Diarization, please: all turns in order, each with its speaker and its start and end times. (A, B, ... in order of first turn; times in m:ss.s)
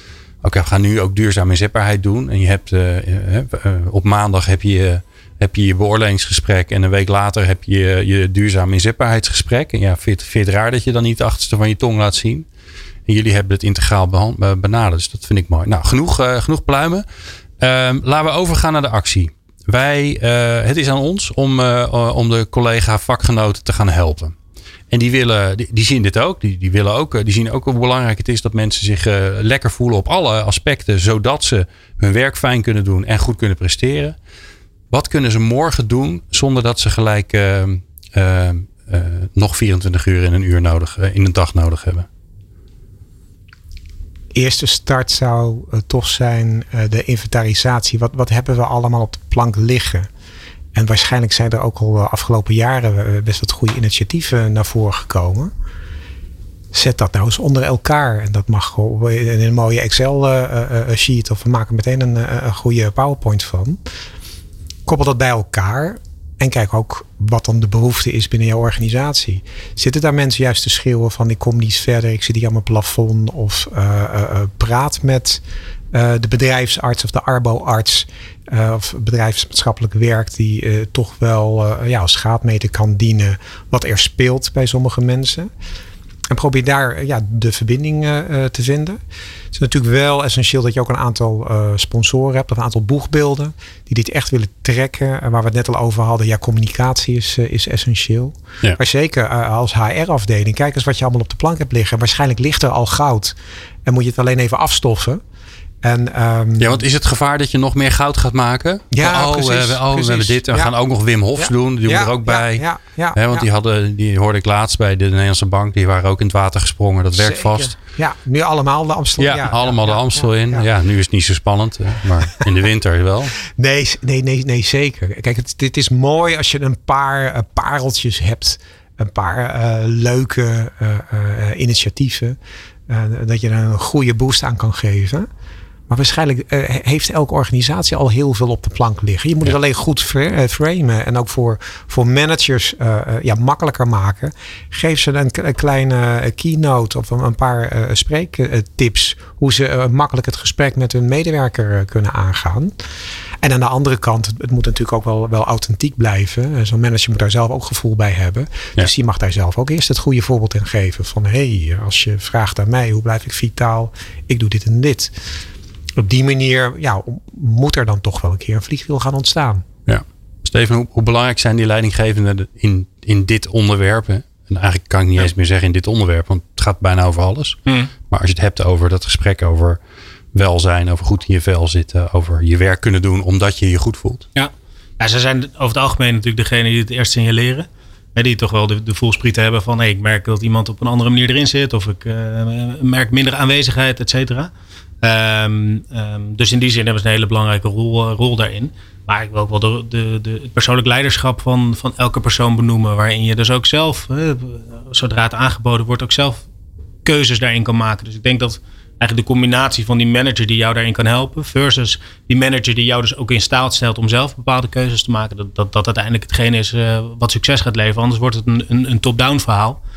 0:00.4-0:12.5 A
0:13.1-0:17.0 A
0:17.6-0:24.4 A
0:24.9-0:34.2 A
0:34.9-0:42.1 A
0:44.3-0:50.1 B
0:50.7-0:55.5 B
0:56.7-1:03.8 B
1:04.9-1:25.5 B
1:26.3-1:29.0 B
1:29.5-1:45.2 B
1:45.8-1:46.8 B
1:46.6-1:57.8 A
1:48.9-1:50.7 B
1:51.4-1:53.5 B
1:57.1-2:00.7 B
1:59.2-2:03.4 A
2:03.4-2:12.4 B
2:12.9-2:15.3 B
2:15.9-2:32.8 B
2:33.4-2:45.2 B
2:46.0-2:49.6 B
2:49.9-2:57.6 A
2:57.7-2:57.9 C
2:58.1-2:59.8 A
3:00.3-3:04.2 A
3:04.4-3:14.5 C
3:15.0-3:26.4 C
3:27.0-3:39.8 C